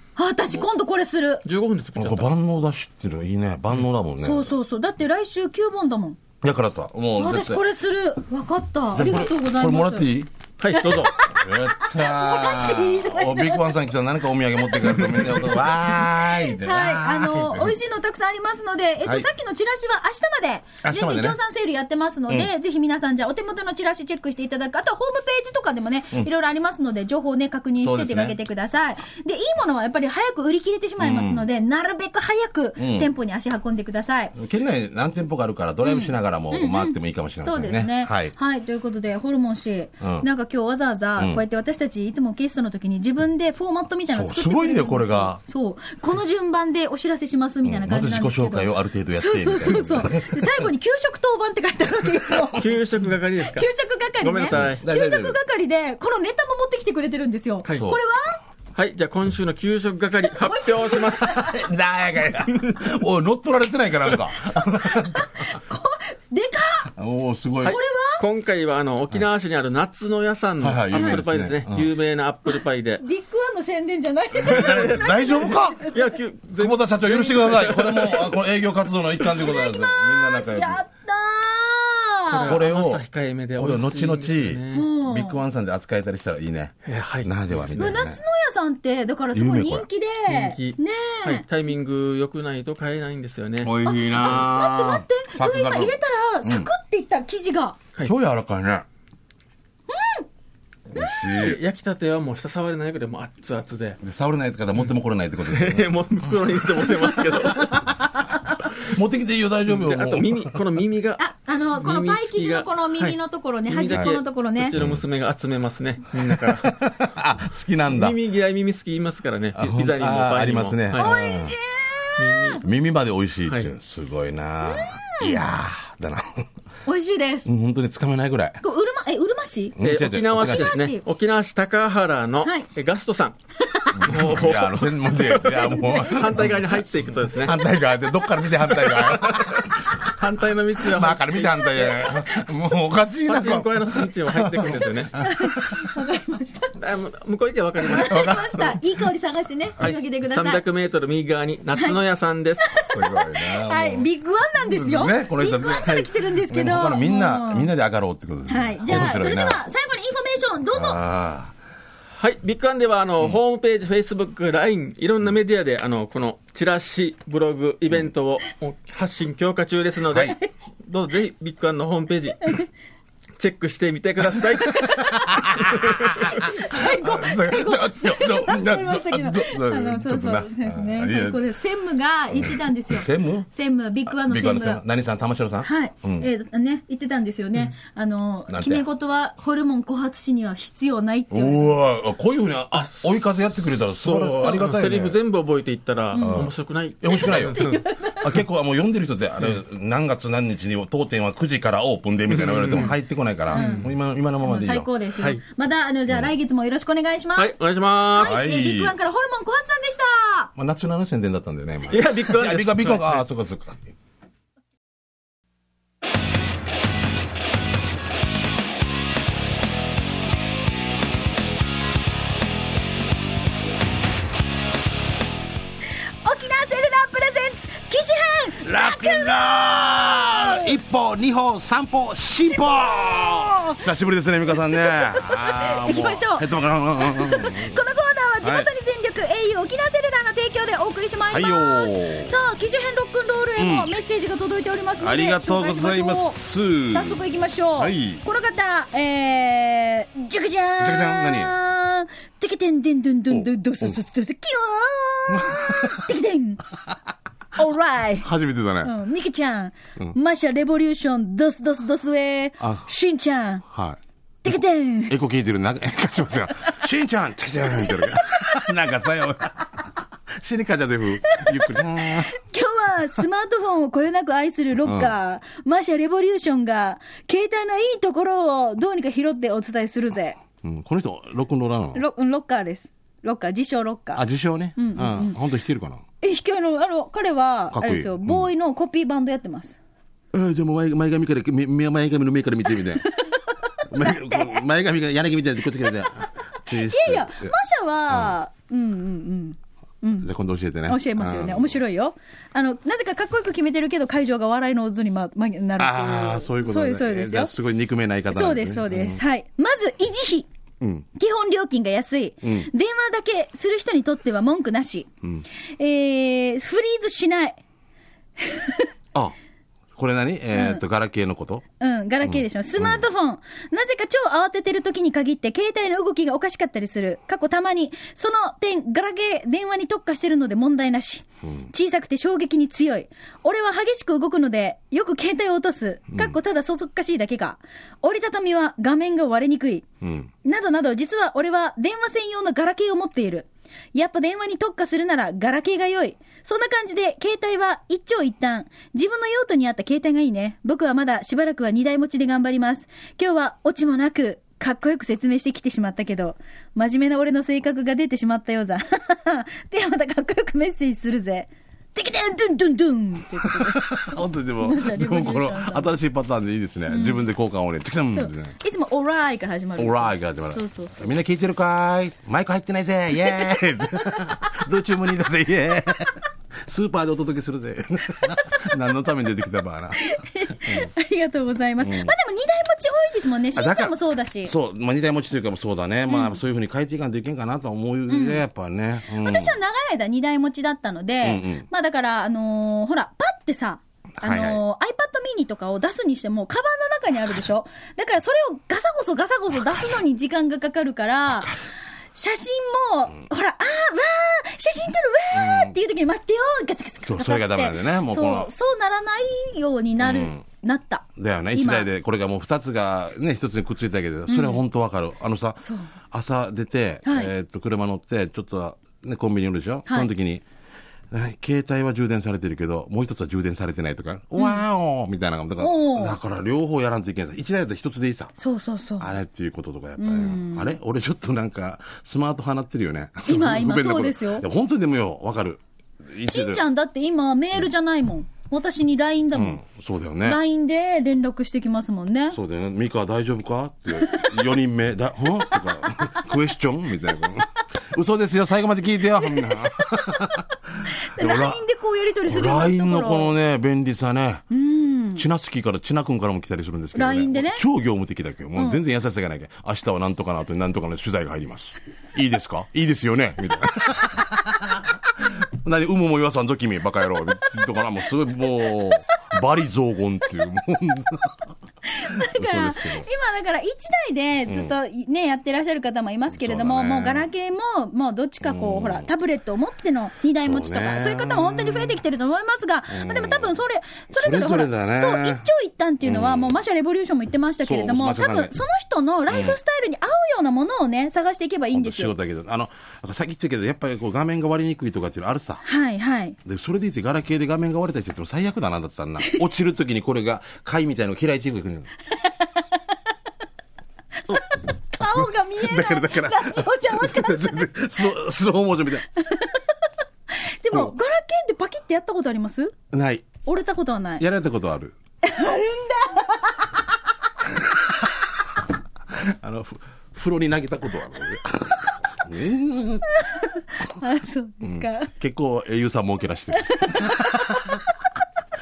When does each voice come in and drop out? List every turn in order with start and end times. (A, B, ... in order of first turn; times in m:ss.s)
0:00.2-0:01.4 A
0:01.4-0:02.3 B
0:02.0-0:04.5 C
0:04.2-0:06.2 A
0:06.4-0:07.6 C
0:07.2-0:10.1 A
0:09.0-0:10.3 C
0:10.6-0:11.2 B
0:10.7-0:13.8 A
0:10.9-0:17.8 C
0:14.6-0:34.3 A
0:20.8-0:21.4 C
0:27.8-0:28.4 C
0:31.0-0:31.5 C
0:32.8-0:33.1 C
0:34.4-0:38.3 C
0:35.8-0:52.7 A
0:40.0-0:40.3 C
0:41.2-0:41.4 C
0:44.1-0:45.4 C
0:47.6-0:50.6 C
0:52.6-0:53.7 B
0:53.4-0:58.4 A
0:54.2-0:54.8 B
0:54.5-0:55.4 C
0:58.7-1:01.5 B
1:00.3-1:01.6 A
1:01.1-1:05.5 C
1:02.5-1:02.9 B
1:04.9-1:06.9 A
1:07.0-1:07.8 C
1:07.6-1:13.0 B
1:07.7-1:08.2 A
1:10.6-1:11.9 C
1:11.0-1:11.2 A
1:13.0-1:16.1 A
1:14.4-1:15.8 C
1:14.4-1:18.4 B
1:16.6-1:20.8 C
1:19.2-1:22.6 A
1:22.3-1:24.9 B
1:22.4-1:23.0 C
1:23.6-1:28.2 C
1:24.7-1:25.4 A
1:26.8-1:28.0 B
1:27.7-1:31.4 A
1:29.3-1:29.9 C
1:30.3-1:33.8 B
1:33.6-1:36.7 C
1:33.8-1:37.8 A
1:38.0-1:38.8 C
1:39.9-1:40.3 A
1:40.9-1:41.6 C
1:41.3-1:44.0 B
1:44.0-1:46.0 C
1:45.4-1:47.8 B
1:47.3-1:50.6 C
1:49.7-1:51.2 B
1:51.2-1:54.8 A
1:51.8-1:56.8 B
1:54.7-1:55.0 C
1:56.2-1:58.2 C
1:57.9-2:01.2 B
1:59.6-2:01.6 C
2:01.0-2:02.6 A
2:02.2-2:02.6 B
2:02.6-2:06.5 C
2:04.6-2:05.4 A
2:06.9-2:07.5 A
2:07.5-2:08.6 C
2:08.6-2:09.8 A
2:09.8-2:10.8 C
2:09.8-2:13.4 B
2:10.3-2:11.0 A
2:13.6-2:14.2 A
2:14.0-2:20.2 C
2:14.0-2:17.6 B
2:15.7-2:16.0 A
2:18.8-2:22.3 B
2:20.8-2:25.8 C
2:23.3-2:25.2 B
2:25.2-2:26.8 A
2:26.8-2:28.8 B
2:27.8-2:30.6 A
2:28.0-2:28.7 C
2:29.8-2:32.7 B
2:32.6-2:37.7 A
2:32.9-2:39.6 C
2:35.8-2:36.1 B
2:38.5-2:41.0 A
2:38.9-2:39.2 B
2:40.7-2:41.5 C
2:42.2-2:52.5 B
2:50.1-2:50.4 C
2:52.4-2:52.7 A
2:53.4-2:56.5 B
2:54.6-2:55.5 A
2:55.0-3:01.5 C
2:56.2-3:04.8 A
3:02.3-3:03.5 C
3:04.1-3:06.3 C
3:05.6-3:11.7 A
3:08.5-3:08.8 C
3:11.3-3:15.2 C
3:12.7-3:13.0 B
3:14.0-3:17.8 B
3:16.1-3:16.4 A
3:16.2-3:24.9 C
3:17.1-3:18.3 A
3:22.3-3:23.0 B
3:23.5-3:23.9 A
3:23.5-3:23.9 B
3:24.4-3:27.6 A
3:27.4-3:28.4 B
3:28.1-3:30.5 A
3:28.2-3:29.0 C
3:30.6-3:34.0 C
3:31.9-3:33.2 B
3:46.2-3:50.8 A
3:48.6-3:57.8 C
3:52.4-3:53.8 A
3:54.7-4:06.4 A
3:58.4-3:58.7 C
4:01.3-4:02.4 C
4:03.6-4:04.0 C
4:05.0-4:07.2 C
4:06.9-4:16.6 A
4:07.8-4:08.2 C
4:10.8-4:11.6 C
4:13.3-4:14.0 C
4:15.3-4:16.1 C
4:17.6-4:18.3 A
4:18.2-4:19.0 C
4:18.8-4:23.7 A
4:22.6-4:22.9 C
4:23.7-4:24.0 C
4:24.4-4:25.2 A
4:25.1-4:32.3 C
4:27.7-4:28.5 A
4:31.3-4:40.4 A
4:34.8-4:35.1 C
4:40.6-4:42.0 C
4:41.9-4:44.2 A
4:44.2-4:46.0 C
4:44.8-4:45.4 A
4:46.2-4:49.8 A
4:47.7-4:48.5 C
4:50.3-4:53.1 C
4:53.0-4:54.6 A
4:53.9-4:57.5 C
4:55.8-5:00.3 A
4:58.1-4:58.4 C
5:00.2-5:01.8 C
5:00.9-5:07.5 A
5:05.8-5:09.2 C
5:08.3-5:10.5 A
5:10.8-5:11.1 C
5:11.2-5:15.1 A
5:12.4-5:12.7 C
5:15.8-5:17.6 A
5:18.4-5:18.9 A
5:20.0-5:21.6 C
5:20.5-5:20.8 A
5:21.8-5:39.8 A
5:22.2-5:23.1 C
5:31.4-5:31.7 C
5:36.1-5:36.4 C
5:40.0-5:40.3 C
5:40.4-6:05.9 A
6:03.4-6:08.6 C
6:06.9-6:07.2 A
6:08.1-6:11.1 A
6:09.8-6:20.9 C
6:13.2-6:14.3 A
6:20.0-6:24.5 A
6:21.8-6:22.1 C
6:23.5-6:29.6 C
6:26.1-6:26.4 A
6:28.1-6:28.4 A
6:29.2-6:41.6 A
6:31.2-6:31.7 C
6:34.2-6:34.6 C
6:41.3-6:41.6 C
6:42.2-6:51.9 A
6:45.3-6:45.8 C
6:47.0-6:48.5 C
6:50.0-6:50.4 C
6:51.2-7:00.4 C
6:54.3-6:54.6 A
6:55.6-6:55.9 A
6:57.0-6:57.3 A
7:01.1-7:08.3 C
7:04.4-7:04.6 A
7:05.6-7:06.2 A
7:08.4-7:09.1 A
7:09.0-7:16.6 C
7:10.0-7:10.8 A
7:13.2-7:14.5 A
7:16.3-7:19.6 A
7:19.3-7:20.4 C
7:20.2-7:22.4 A
7:22.3-7:31.6 C
7:24.0-7:24.4 A
7:29.3-7:29.9 A
7:30.9-7:33.3 A
7:32.2-7:34.4 C
7:34.5-7:35.2 A
7:35.2-7:51.4 C
7:37.0-7:37.6 A
7:51.8-8:12.1 A
7:52.0-7:53.1 C
7:54.5-7:54.8 C
7:56.3-7:57.3 C
7:58.4-7:59.1 C
8:00.4-8:02.0 C
8:02.9-8:03.6 C
8:04.1-8:05.4 C
8:06.0-8:06.6 C
8:07.6-8:08.6 C
8:09.3-8:09.6 C
8:11.7-8:15.6 C
8:15.6-8:16.4 A
8:16.4-8:21.9 C
8:22.4-8:22.8 A
8:24.3-8:27.7 A
8:25.0-8:29.1 C
8:29.2-8:29.6 A
8:30.3-8:32.8 A
8:32.9-8:33.4 C
8:33.4-8:34.2 A
8:34.2-8:35.0 C
8:35.2-8:36.7 A
8:37.5-8:38.3 C
8:39.1-8:43.1 C
8:43.1-8:45.2 A
8:44.6-8:47.8 C
8:46.5-8:47.7 A